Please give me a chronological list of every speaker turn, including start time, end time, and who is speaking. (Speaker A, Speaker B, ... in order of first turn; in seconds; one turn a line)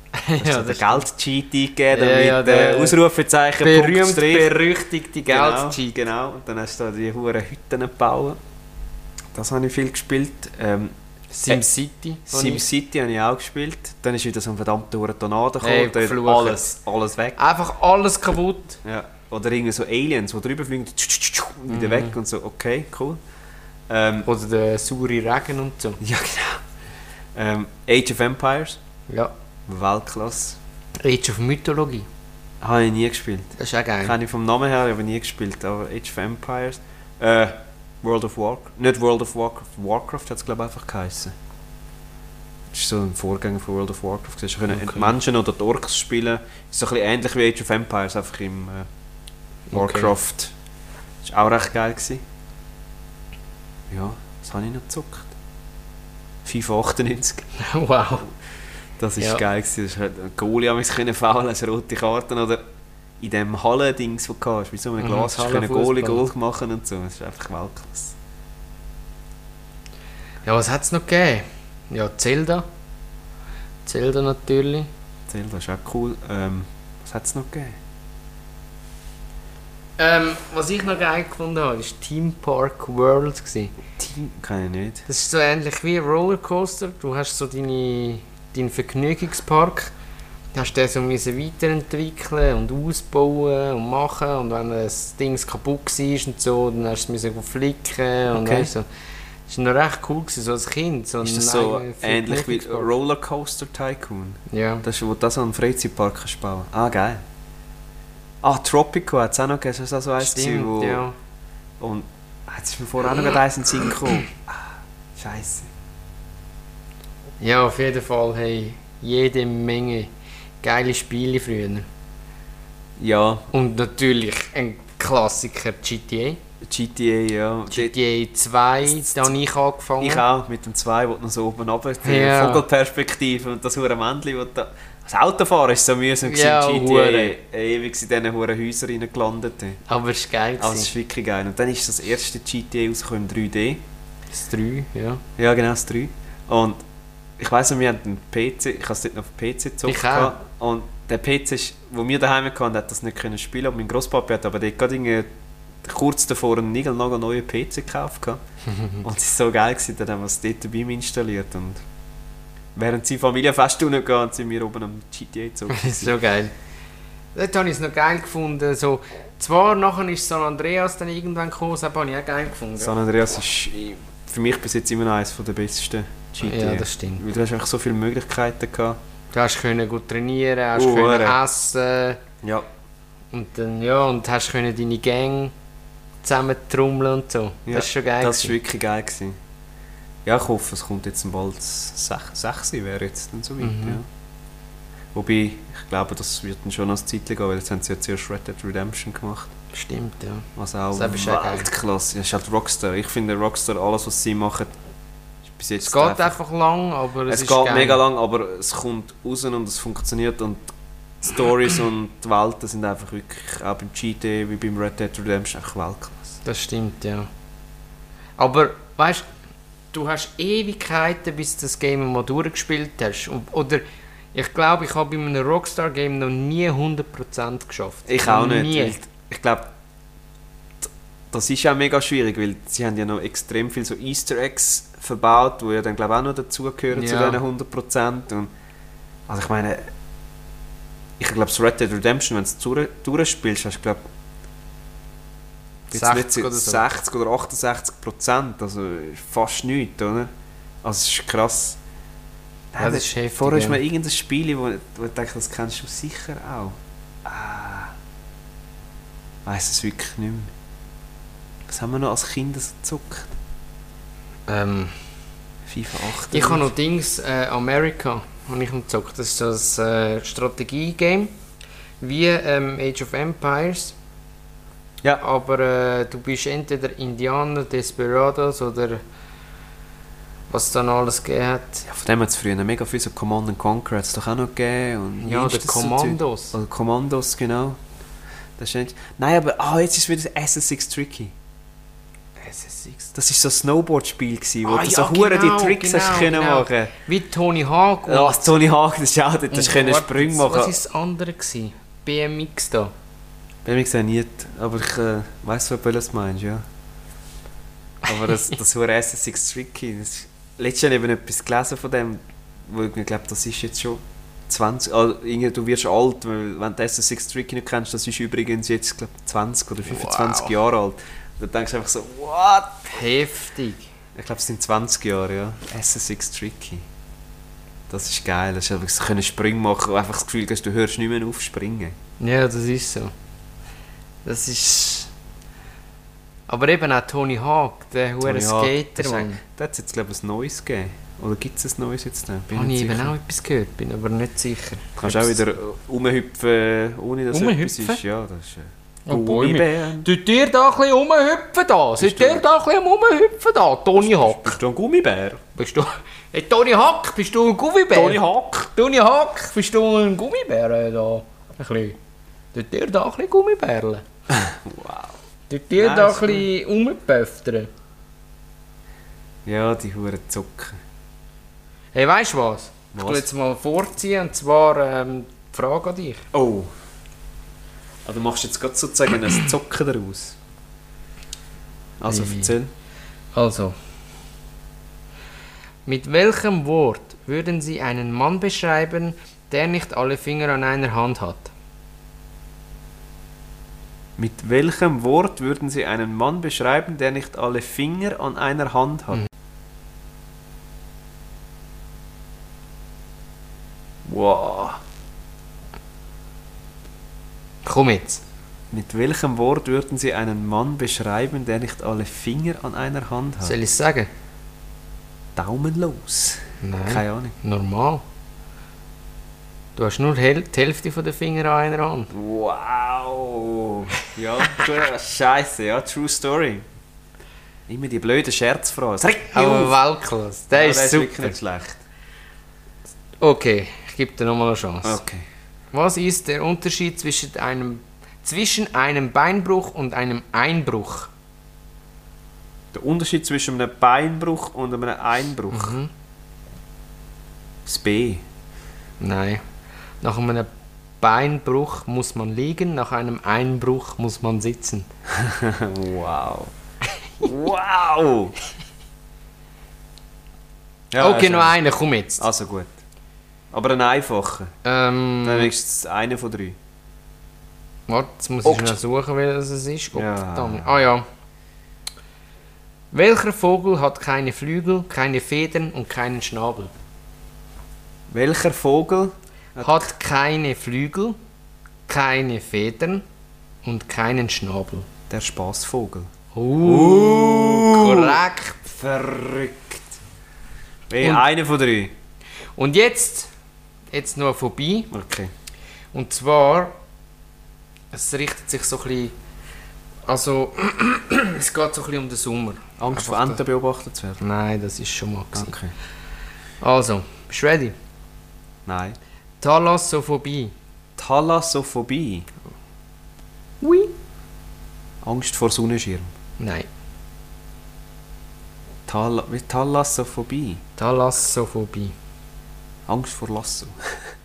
Speaker A: 0.1-1.1
Speaker B: 0.4-4.6
Speaker A: 1.9-3.0
Speaker A: 3.6-6.0
Speaker B: 5.2-8.4
Speaker B: 9.3-10.9
Speaker A: 11.3-12.6
Speaker B: 12.3-17.4
Speaker A: 15.6-16.7
Speaker A: 17.4-18.8
Speaker B: 18.8-23.2
Speaker A: 21.7-22.1
Speaker B: 23.9-24.3
Speaker A: 24.2-26.0
Speaker B: 26.0-26.6
Speaker B: 27.3-28.8
Speaker B: 29.7-30.6
Speaker A: 31.0-32.1
Speaker B: 32.6-41.3
Speaker A: 33.6-34.1
Speaker B: 42.7-48.9
Speaker A: 44.7-45.1
Speaker A: 49.7-50.1
Speaker B: 49.7-50.5
Speaker B: 51.2-52.2
Speaker B: 53.9-55.3
Speaker B: 56.4-57.5
Speaker A: 57.5-58.3
Speaker B: 59.0-62.6
Speaker B: 63.2-68.2
Speaker A: 65.0-66.2
Speaker A: 70.4-72.6
Speaker A: 73.8-74.9
Speaker B: 75.3-77.8
Speaker A: 80.0-83.7
Speaker B: 84.0-85.1
Speaker A: 85.1-89.9
Speaker A: 90.5-98.8
Speaker B: 98.3-98.7
Speaker A: 99.5-102.9
Speaker B: 101.2-107.2
Speaker A: 104.5-104.8
Speaker B: 108.4-111.0
Speaker A: 110.2-111.1
Speaker B: 111.8-115.7
Speaker A: 117.4-120.1
Speaker A: 120.6-121.8
Speaker B: 123.0-123.5
Speaker A: 123.5-126.4
Speaker B: 126.6-128.0
Speaker A: 127.7-130.2
Speaker B: 128.8-129.4
Speaker B: 130.0-139.8
Speaker A: 132.0-132.6
Speaker A: 136.2-137.3
Speaker A: 139.8-140.9
Speaker B: 140.6-143.8
Speaker A: 144.3-145.2
Speaker B: 145.4-146.8
Speaker B: 147.4-155.3
Speaker A: 149.8-150.3
Speaker B: 155.8-158.4
Speaker A: 158.7-159.0
Speaker B: 159.0-161.8
Speaker B: 162.7-166.1
Speaker A: 165.7-166.5
Speaker A: 167.3-172.9
Speaker B: 172.8-179.0
Speaker A: 176.4-177.2
Speaker A: 179.3-182.2
Speaker B: 180.8-181.4
Speaker B: 182.4-182.7
Speaker A: 183.3-185.5
Speaker A: 186.2-188.6
Speaker B: 187.7-189.4
Speaker B: 190.2-194.0
Speaker A: 193.6-194.0
Speaker B: 195.1-199.5
Speaker A: 199.7-201.7
Speaker B: 200.6-204.7
Speaker B: 205.5-206.3
Speaker A: 205.8-208.0
Speaker B: 207.3-210.7
Speaker B: 211.2-216.4
Speaker A: 216.4-217.3
Speaker A: 218.4-219.2
Speaker A: 219.9-228.9
Speaker B: 228.1-229.7
Speaker B: 230.8-238.5
Speaker A: 236.9-237.4
Speaker B: 239.3-239.9
Speaker B: 241.2-244.0
Speaker A: 245.9-246.8
Speaker B: 245.9-250.3
Speaker B: 250.8-251.8
Speaker B: 252.7-257.9
Speaker A: 252.8-253.8
Speaker B: 259.4-260.5
Speaker B: 261.7-263.3
Speaker A: 264.5-264.9
Speaker B: 265.6-266.7
Speaker A: 266.3-271.3
Speaker A: 272.0-273.9
Speaker A: 275.2-279.0
Speaker A: 280.5-281.9
Speaker B: 281.9-287.8
Speaker A: 285.2-286.6
Speaker B: 288.6-291.3
Speaker A: 292.4-293.1
Speaker B: 293.1-296.9
Speaker A: 294.6-298.4
Speaker B: 298.0-300.8
Speaker A: 299.5-302.9
Speaker B: 303.6-306.6
Speaker B: 308.0-322.9
Speaker A: 319.9-320.5
Speaker A: 322.9-323.9
Speaker B: 324.1-326.8
Speaker B: 327.9-331.9
Speaker A: 332.2-333.1
Speaker A: 334.2-335.1
Speaker A: 336.5-339.4
Speaker B: 338.2-343.1
Speaker A: 342.5-345.4
Speaker B: 345.0-350.1
Speaker A: 347.3-348.0
Speaker A: 349.1-354.6
Speaker B: 352.0-352.4
Speaker B: 354.0-355.4
Speaker A: 355.5-358.2
Speaker B: 357.9-358.7
Speaker A: 358.7-362.0
Speaker A: 362.5-364.0
Speaker B: 364.3-365.1
Speaker A: 365.5-367.7
Speaker B: 365.8-366.5
Speaker B: 369.4-370.8
Speaker A: 371.9-376.2
Speaker B: 372.9-373.2
Speaker B: 376.3-376.7
Speaker B: 378.0-380.4
Speaker B: 382.0-382.7
Speaker A: 382.1-382.5
Speaker A: 383.3-383.8
Speaker A: 385.9-391.5
Speaker B: 394.2-399.2
Speaker B: 404.0-404.8
Speaker A: 407.6-408.2
Speaker B: 408.7-413.5
Speaker A: 413.4-414.1
Speaker B: 415.4-417.4
Speaker A: 416.6-418.0
Speaker A: 419.8-422.1
Speaker B: 422.1-426.6
Speaker B: 427.7-429.8
Speaker A: 429.3-431.3
Speaker B: 430.5-431.8
Speaker A: 433.2-435.0
Speaker B: 434.8-435.2
Speaker A: 435.7-441.1
Speaker B: 442.7-445.7
Speaker A: 445.5-445.9
Speaker B: 447.6-448.2
Speaker A: 449.0-449.4
Speaker A: 450.0-450.5
Speaker A: 451.0-454.9
Speaker B: 455.1-456.5
Speaker B: 457.2-458.3
Speaker B: 460.9-461.6
Speaker A: 461.0-462.2
Speaker B: 462.2-462.7
Speaker B: 463.5-464.5
Speaker A: 464.6-465.5
Speaker B: 465.2-466.6
Speaker A: 467.9-471.0
Speaker B: 468.4-468.8
Speaker B: 469.9-470.8
Speaker A: 472.9-476.7
Speaker B: 478.1-479.9
Speaker A: 479.6-481.1
Speaker A: 481.9-483.0
Speaker A: 483.6-484.9
Speaker B: 485.1-486.1
Speaker A: 486.3-488.6
Speaker B: 486.6-489.9
Speaker B: 490.9-491.9
Speaker A: 491.0-491.2
Speaker A: 492.6-493.3
Speaker A: 493.9-494.9
Speaker B: 494.9-495.3
Speaker A: 495.9-496.7
Speaker A: 497.9-499.1
Speaker A: 500.1-503.4
Speaker B: 502.8-504.2
Speaker A: 504.2-505.5
Speaker B: 505.3-505.7
Speaker A: 506.6-507.7
Speaker B: 508.6-509.0
Speaker A: 509.4-510.5
Speaker B: 511.0-512.3
Speaker A: 513.6-513.9
Speaker B: 515.0-516.1
Speaker A: 516.4-516.7
Speaker B: 518.9-520.6
Speaker A: 520.8-521.9
Speaker B: 522.9-524.0